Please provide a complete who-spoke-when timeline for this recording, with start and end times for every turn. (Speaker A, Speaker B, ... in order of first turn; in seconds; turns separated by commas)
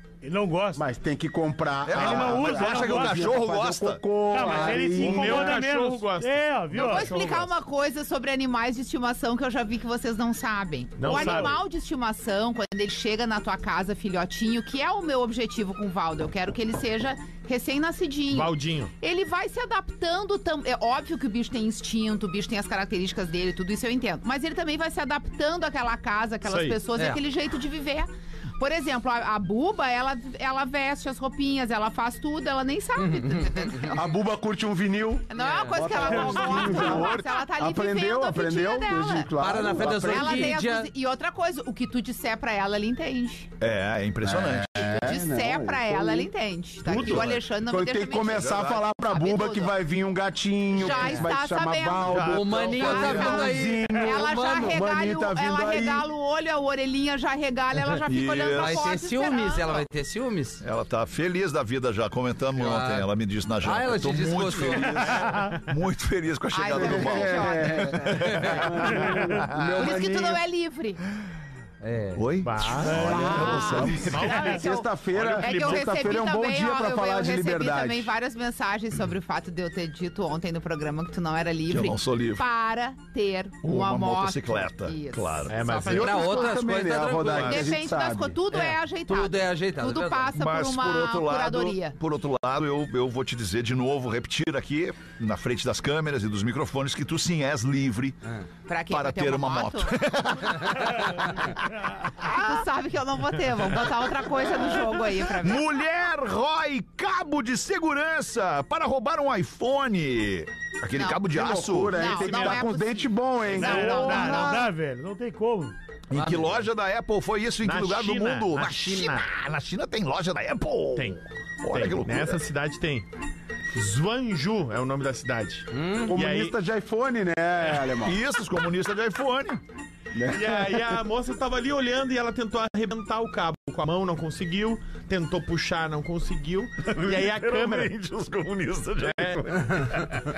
Speaker A: 0.2-0.8, Speaker B: 0.8-5.6, Speaker C: 1.9-4.5, Speaker A: 1.9-3.4, Speaker A: 4.3-7.3, Speaker D: 4.5-7.5, Speaker E: 6.8-34.2, Speaker D: 11.0-11.6, Speaker A: 11.1-11.6, Speaker D: 18.3-18.9, Speaker D: 26.4-26.8, Speaker F: 26.9-27.2, Speaker F: 33.0-33.9, Speaker B: 33.9-40.6, Speaker E: 35.3-43.5, Speaker F: 35.4-36.3, Speaker C: 36.5-37.3, Speaker F: 39.4-40.9, Speaker C: 43.6-45.0, Speaker B: 44.2-46.3, Speaker E: 45.0-49.8, Speaker B: 46.9-56.1, Speaker C: 46.9-47.4, Speaker C: 48.2-48.9, Speaker E: 50.7-59.8, Speaker F: 50.9-51.2, Speaker C: 52.1-54.1, Speaker F: 52.2-54.8, Speaker C: 58.1-58.9, Speaker F: 58.5-60.6, Speaker C: 60.6-69.8, Speaker F: 62.6-63.1, Speaker F: 63.6-65.0, Speaker B: 64.5-65.3, Speaker A: 65.3-65.5, Speaker E: 66.5-69.0, Speaker B: 66.7-70.4, Speaker F: 68.3-68.6, Speaker E: 69.8-71.0, Speaker F: 71.8-72.2, Speaker C: 72.2-74.4, Speaker D: 72.4-73.1, Speaker A: 72.8-73.8, Speaker B: 72.9-78.1, Speaker E: 73.0-74.9, Speaker D: 73.9-75.9, Speaker E: 75.4-86.6, Speaker C: 81.7-82.5, Speaker C: 83.6-85.6, Speaker D: 85.5-86.4, Speaker F: 85.8-87.7, Speaker B: 85.9-88.4, Speaker E: 87.3-92.0, Speaker F: 88.5-90.3, Speaker C: 90.3-98.2, Speaker E: 98.7-100.0, Speaker C: 98.9-102.2, Speaker E: 102.2-105.7, Speaker C: 104.7-112.1, Speaker E: 110.9-114.7, Speaker B: 111.3-114.4, Speaker D: 112.2-112.6, Speaker A: 113.6-115.8, Speaker C: 116.1-122.4, Speaker F: 116.1-116.6, Speaker D: 117.6-119.3, Speaker D: 121.7-123.1, Speaker D: 123.7-126.5, Speaker F: 125.7-126.1, Speaker B: 126.1-128.2, Speaker C: 128.0-129.6, Speaker B: 130.1-131.0, Speaker D: 130.3-137.9, Speaker C: 136.9-140.1, Speaker D: 139.0-140.0